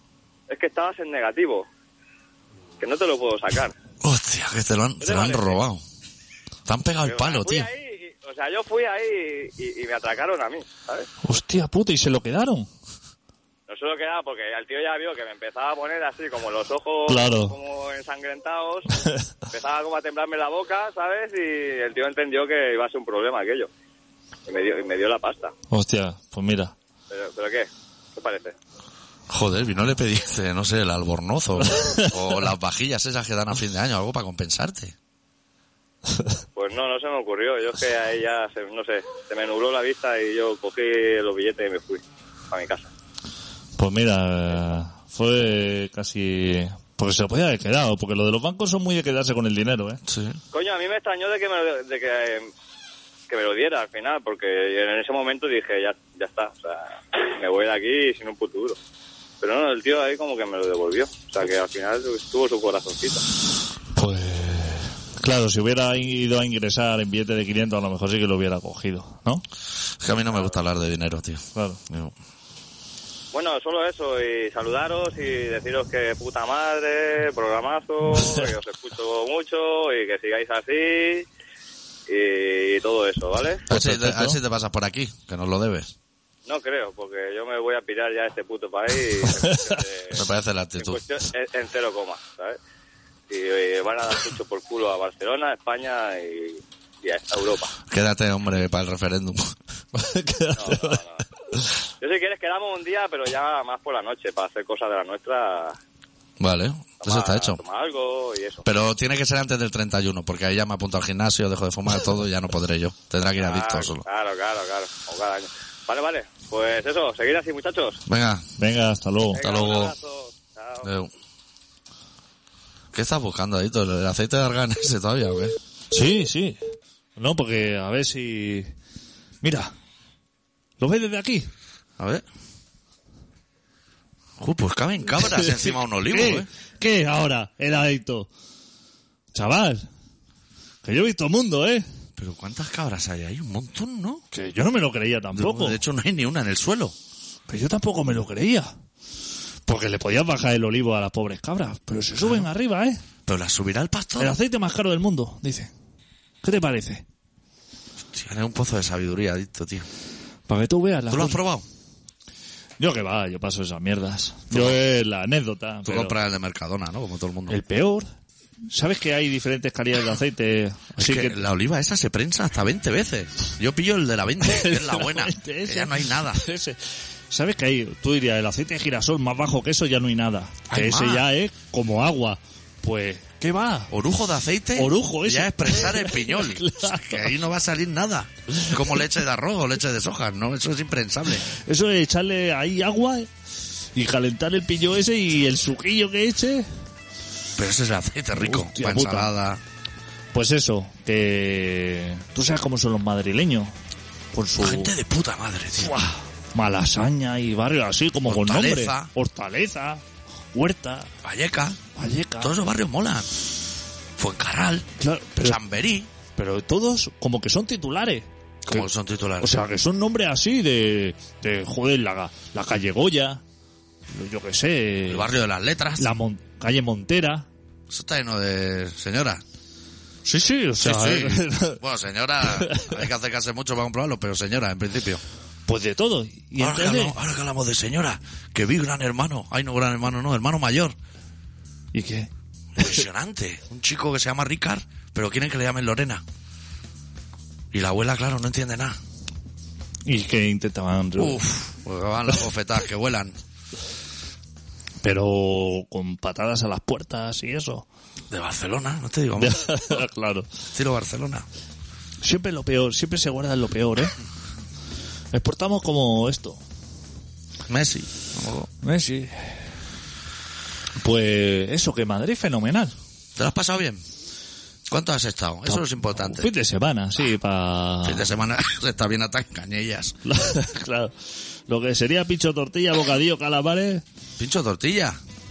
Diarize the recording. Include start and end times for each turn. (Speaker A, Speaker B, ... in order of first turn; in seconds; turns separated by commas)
Speaker A: 0.5-1.6, Speaker A: 2.8-3.7, Speaker B: 4.0-5.8, Speaker A: 5.0-5.6, Speaker B: 6.7-7.7, Speaker A: 7.0-11.1, Speaker C: 11.2-12.7, Speaker A: 13.7-23.7, Speaker C: 17.1-17.5, Speaker A: 24.5-25.5, Speaker C: 25.7-26.7, Speaker A: 27.1-28.6, Speaker B: 29.3-34.9, Speaker C: 31.6-32.1, Speaker A: 36.5-42.9, Speaker C: 43.8-50.0, Speaker B: 50.0-50.4, Speaker A: 50.5-52.5, Speaker A: 53.3-58.8, Speaker A: 59.4-63.2, Speaker C: 63.9-69.4, Speaker B: 70.0-72.1, Speaker C: 71.5-71.8, Speaker A: 73.3-81.2, Speaker A: 82.1-83.6, Speaker B: 83.7-85.9, Speaker C: 83.7-84.4, Speaker A: 86.5-90.2, Speaker C: 89.4-89.8, Speaker B: 90.1-91.0, Speaker A: 90.8-92.6, Speaker A: 93.3-97.8, Speaker B: 97.9-99.5, Speaker C: 99.9-101.0, Speaker A: 100.5-101.2, Speaker A: 102.0-105.8, Speaker B: 106.4-107.6, Speaker A: 107.0-108.7, Speaker B: 108.6-114.0, Speaker A: 113.3-118.0, Speaker B: 118.1-118.5, Speaker C: 118.6-119.4, Speaker A: 119.3-120.9, Speaker B: 119.4-119.9, Speaker B: 120.8-121.1, Speaker B: 122.9-125.5, Speaker C: 125.9-126.6, Speaker C: 127.2-128.7, Speaker C: 129.4-129.7, Speaker C: 130.8-131.5, Speaker B: 132.0-132.2, Speaker B: 134.4-136.5, Speaker C: 135.3-138.3, Speaker C: 139.3-139.9, Speaker C: 140.8-141.8, Speaker B: 142.2-144.2, Speaker C: 144.3-145.8, Speaker B: 145.3-146.9, Speaker C: 147.5-148.7, Speaker C: 149.7-153.0, Speaker B: 152.2-152.5, Speaker B: 153.2-154.4, Speaker C: 154.2-155.7, Speaker C: 156.4-157.0, Speaker B: 158.1-159.9, Speaker C: 160.5-161.4, Speaker B: 161.1-161.6, Speaker C: 162.8-166.2, Speaker B: 164.5-164.8, Speaker B: 165.8-167.6, Speaker C: 167.5-168.1, Speaker C: 168.7-171.4, Speaker B: 171.0-176.4, Speaker C: 174.4-176.8, Speaker C: 177.3-183.9, Speaker B: 180.7-181.2, Speaker B: 183.9-191.5, Speaker C: 184.8-187.3, Speaker C: 191.5-193.3, Speaker C: 193.9-196.7, Speaker B: 197.6-199.6, Speaker C: 198.3-199.3, Speaker C: 200.3-203.7, Speaker C: 204.3-204.9, Speaker B: 204.6-205.9, Speaker C: 205.8-211.1, Speaker B: 208.2-209.1, Speaker B: 211.2-211.8, Speaker C: 211.9-212.5, Speaker B: 212.4-213.3, Speaker B: 214.2-214.9, Speaker C: 215.0-215.6, Speaker B: 215.4-216.1, Speaker C: 216.3-218.8, Speaker B: 218.7-219.6, Speaker C: 219.4-223.4, Speaker C: 224.1-225.3, Speaker B: 225.1-226.1, Speaker C: 226.0-227.5, Speaker B: 227.9-229.4, Speaker C: 230.2-231.8, Speaker B: 230.8-235.2, Speaker C: 232.4-233.0, Speaker C: 235.7-237.2, Speaker B: 236.6-240.9, Speaker C: 241.9-242.3, Speaker B: 242.8-246.2, Speaker B: 247.7-249.0, Speaker C: 250.1-251.4, Speaker B: 251.2-253.3, Speaker C: 255.0-257.9, Speaker B: 258.3-260.0, Speaker C: 259.4-260.5, Speaker B: 260.7-261.4, Speaker C: 262.2-264.1, Speaker C: 265.3-266.6, Speaker B: 267.7-268.7, Speaker C: 268.8-269.6, Speaker C: 271.0-272.9, Speaker B: 273.4-274.0, Speaker B: 274.9-276.5, Speaker C: 275.7-278.3, Speaker B: 278.0-280.1, Speaker C: 280.2-281.1, Speaker C: 281.7-284.0, Speaker B: 284.4-285.2